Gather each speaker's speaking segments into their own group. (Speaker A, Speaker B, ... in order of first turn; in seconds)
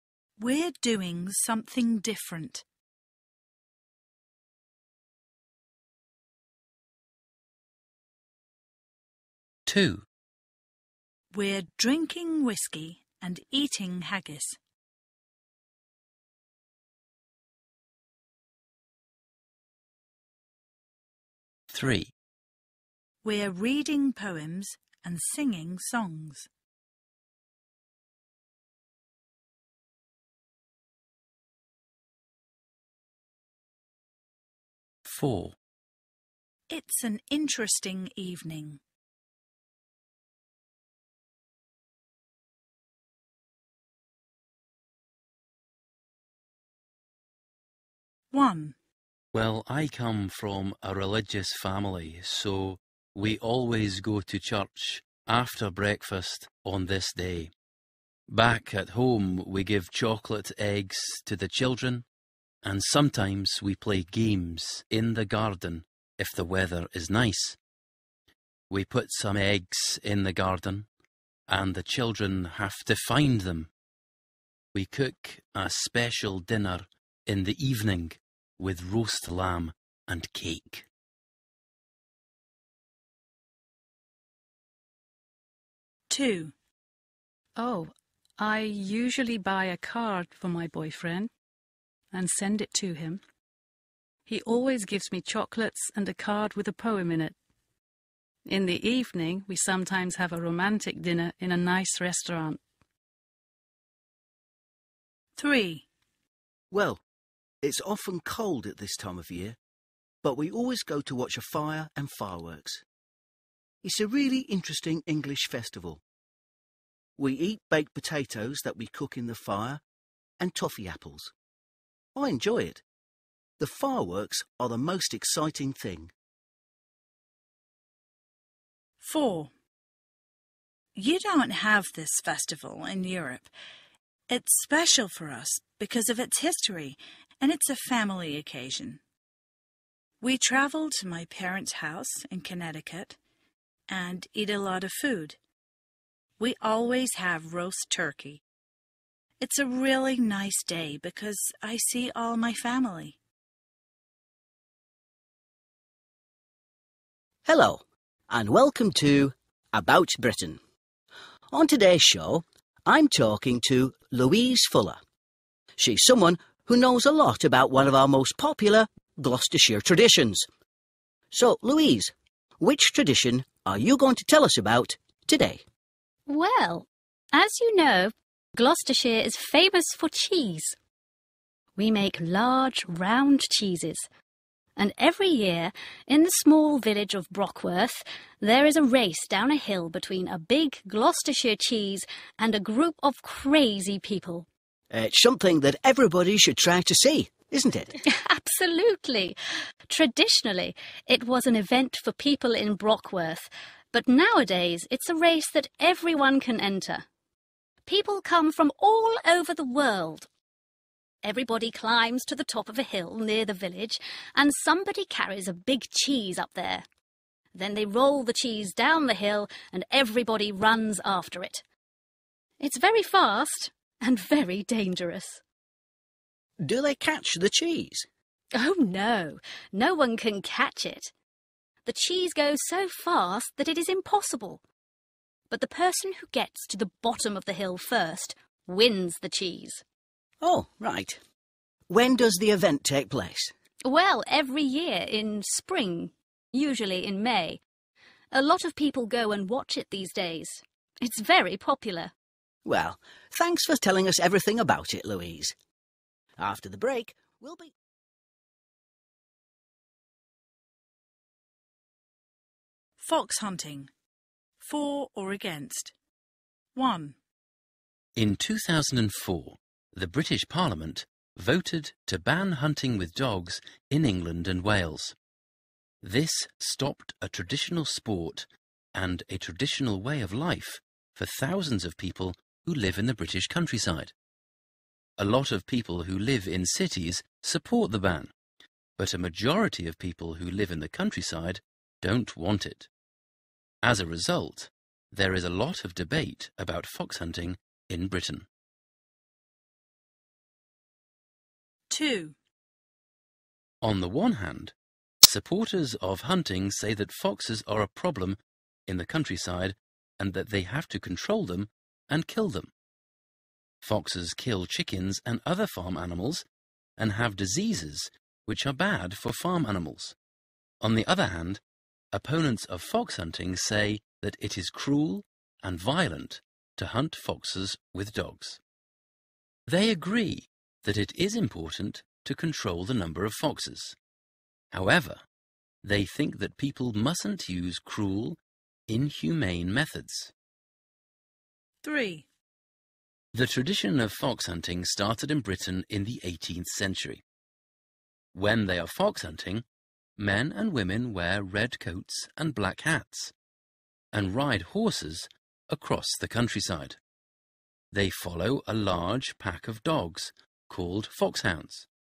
Speaker A: 0.4-2.6, 11.3-14.6, 23.2-26.5, 36.7-38.8, 48.3-48.8, 86.1-86.5, 105.4-105.9, 129.0-129.5, 130.9-133.5, 134.3-139.0, 140.2-143.2, 143.9-145.4, 146.4-148.4, 149.4-153.2, 263.0-263.9, 264.6-265.9, 266.8-267.1, 301.9-302.3, 341.8-342.2
Speaker B: 9.7-10.0, 21.7-22.1, 35.0-35.6, 49.3-57.5, 58.3-62.0, 62.6-67.6, 68.7-70.9, 71.5-73.7, 74.7-80.9, 268.1-275.1, 276.0-284.1, 285.2-288.3, 289.0-292.9, 293.8-298.5, 303.8-312.7, 313.8-316.4, 317.0-320.1, 320.8-321.6, 322.1-328.6, 329.7-334.0, 334.7-335.2, 335.8-340.3, 343.3-347.2, 348.3-349.6, 350.2-353.3, 354.1-357.0, 357.9-361.9
Speaker C: 87.6-91.3, 92.1-93.2, 94.2-97.4, 98.4-102.6
Speaker D: 106.7-107.0, 107.6-109.6, 110.2-112.8, 113.8-116.0, 117.2-119.8, 120.4-121.3, 122.1-122.8, 123.6-126.1, 157.4-160.6, 161.5-165.0, 165.8-170.5, 171.3-175.6, 194.9-197.9, 226.6-228.1, 240.4-241.2, 241.9-243.5, 252.6-255.6, 256.4-257.7
Speaker E: 176.3-180.8, 181.8-184.1, 184.8-194.5, 198.1-199.4, 199.9-207.1, 207.9-210.3, 211.2-216.8, 217.5-221.6, 222.6-225.4, 228.5-231.1, 231.8-234.6, 235.5-239.8, 243.8-247.6, 248.3-252.1